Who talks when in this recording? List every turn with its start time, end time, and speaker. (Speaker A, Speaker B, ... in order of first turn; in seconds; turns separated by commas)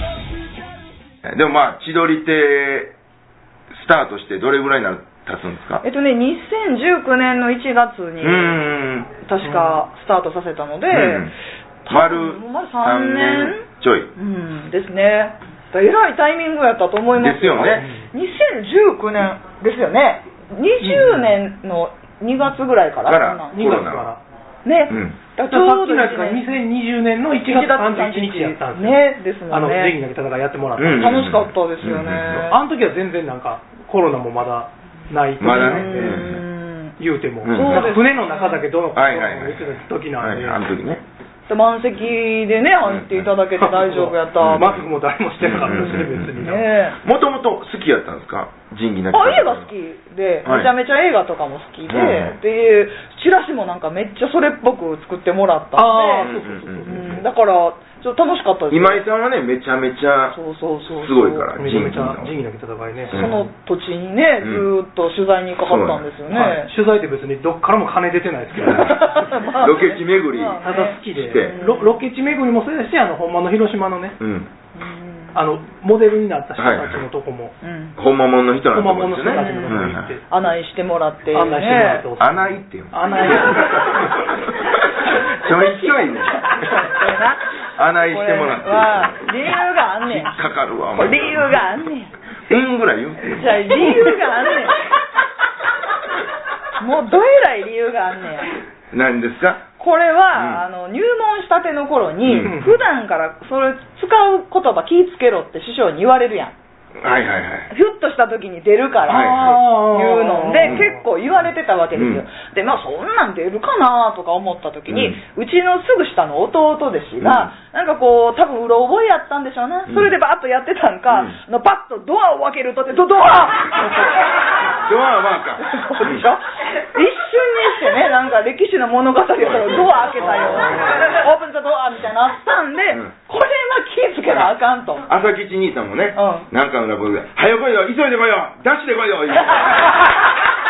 Speaker A: 1.2-2.9, Speaker A: 3.7-5.8, Speaker B: 5.8-11.3, Speaker A: 8.2-9.1, Speaker C: 9.4-9.8, Speaker A: 10.9-11.3, Speaker B: 11.9-13.6, Speaker A: 11.9-14.1, Speaker B: 14.2-23.8, Speaker A: 17.2-17.9, Speaker C: 17.7-18.1, Speaker C: 20.8-21.4, Speaker A: 23.1-24.1, Speaker C: 23.5-24.2, Speaker B: 24.6-26.6, Speaker A: 24.9-25.2, Speaker C: 25.5-31.2, Speaker B: 27.4-29.9, Speaker A: 30.8-32.5, Speaker B: 30.9-32.6, Speaker C: 32.5-36.4, Speaker A: 35.4-36.4, Speaker B: 35.5-37.0, Speaker C: 37.0-40.6, Speaker A: 37.4-38.0, Speaker B: 37.5-38.6, Speaker A: 39.0-41.0, Speaker B: 41.5-44.8, Speaker A: 42.9-43.3, Speaker C: 43.6-46.7, Speaker A: 44.4-44.9, Speaker A: 45.4-49.7, Speaker B: 45.7-47.0, Speaker B: 49.1-56.3, Speaker A: 50.5-50.7, Speaker A: 51.9-52.4, Speaker C: 55.8-57.2, Speaker A: 56.2-57.2, Speaker B: 56.9-59.0, Speaker A: 58.7-60.4, Speaker B: 60.3-61.5, Speaker A: 61.0-62.3, Speaker C: 61.6-63.4, Speaker A: 63.1-63.5, Speaker B: 63.1-66.7, Speaker A: 64.4-64.7, Speaker A: 65.6-66.0, Speaker C: 66.3-69.4, Speaker B: 68.6-72.0, Speaker A: 69.6-71.6, Speaker C: 70.6-74.2, Speaker A: 74.2-74.5, Speaker B: 74.8-75.4, Speaker C: 75.3-77.5, Speaker A: 76.6-77.1, Speaker B: 77.6-78.0, Speaker A: 78.0-80.1, Speaker C: 78.7-80.2, Speaker B: 79.3-82.1, Speaker C: 81.3-84.1, Speaker A: 82.2-86.5, Speaker B: 83.3-83.8, Speaker B: 85.0-87.4, Speaker A: 87.8-89.2, Speaker B: 88.1-90.3, Speaker A: 90.0-91.6, Speaker B: 90.9-92.1, Speaker A: 92.5-93.5, Speaker B: 93.2-94.8, Speaker B: 96.8-98.5, Speaker A: 98.9-99.6, Speaker B: 99.8-106.5, Speaker A: 100.3-100.6, Speaker A: 102.3-102.6, Speaker C: 102.4-102.8, Speaker A: 107.0-107.7, Speaker B: 107.7-124.1, Speaker A: 109.1-109.6, Speaker C: 109.1-110.9, Speaker A: 111.9-112.2, Speaker A: 114.9-115.2, Speaker A: 117.2-117.5, Speaker A: 121.1-121.4, Speaker A: 124.8-126.3, Speaker B: 125.6-135.1, Speaker A: 129.4-131.0, Speaker A: 135.1-139.9, Speaker B: 136.2-136.5